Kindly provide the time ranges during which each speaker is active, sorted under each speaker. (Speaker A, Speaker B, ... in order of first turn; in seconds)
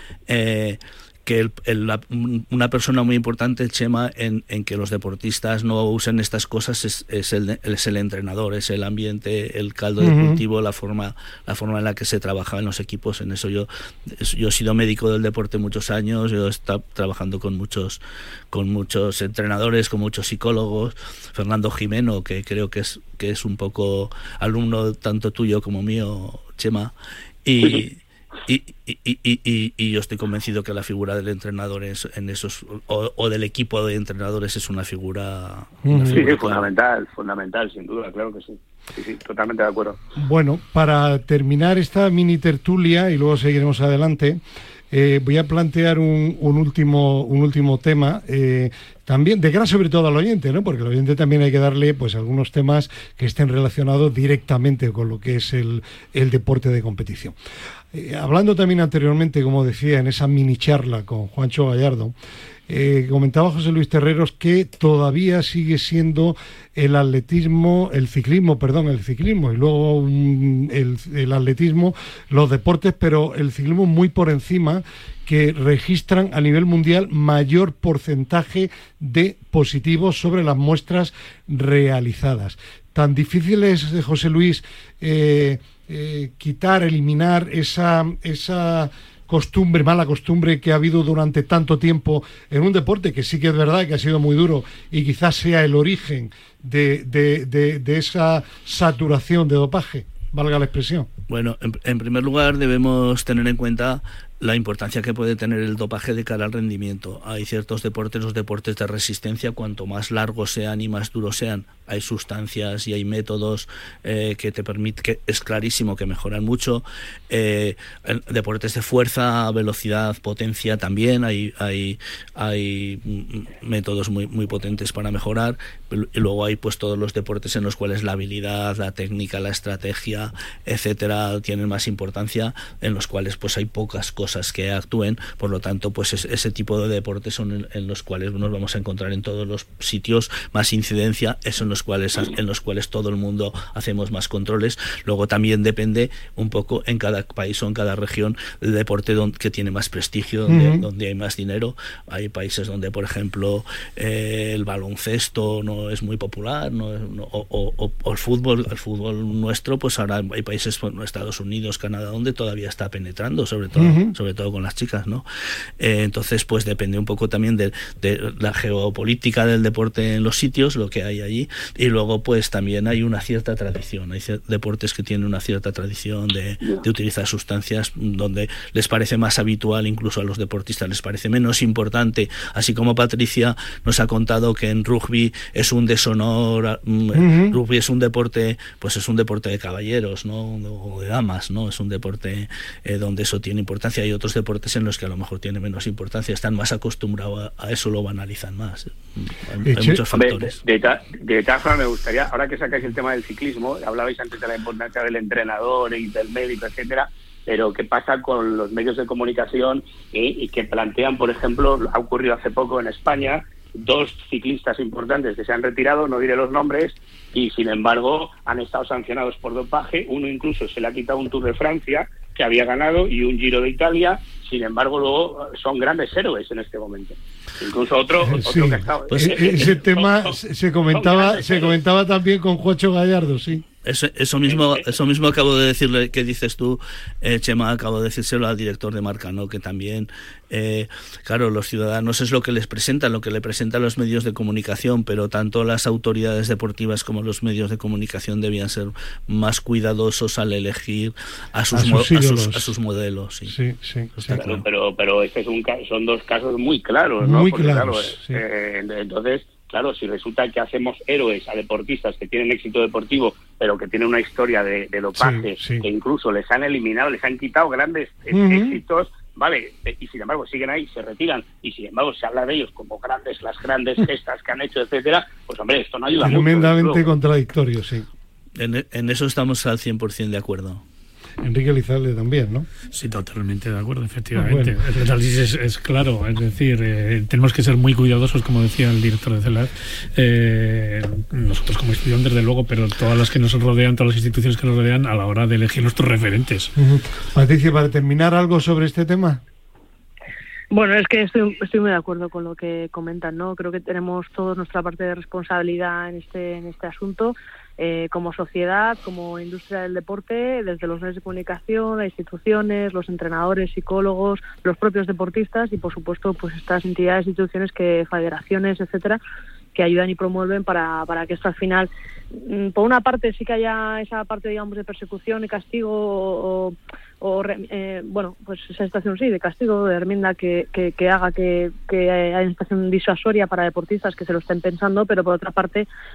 Speaker A: 0.3-18.0, 18.5-26.9, 27.4-36.7, 101.3-165.2, 165.8-200.6, 229.1-229.6, 233.8-253.6, 254.2-254.7, 278.6-280.8
Speaker B: 10.0-10.4, 35.8-36.3, 40.2-57.4, 57.9-62.1, 62.7-101.1, 150.5-150.8, 163.8-164.1, 187.1-187.6, 199.7-200.0, 228.2-233.7, 251.7-252.7, 253.5-254.4, 257.2-258.4, 265.2-265.9, 268.3-268.8, 276.2-278.1, 281.4-282.7, 284.4-284.8, 296.8-299.4
Speaker C: 36.1-40.0, 200.1-230.3, 230.9-231.8, 234.5-234.9, 254.3-277.1
Speaker D: 282.9-296.7
Speaker E: 300.7-319.2, 319.8-335.9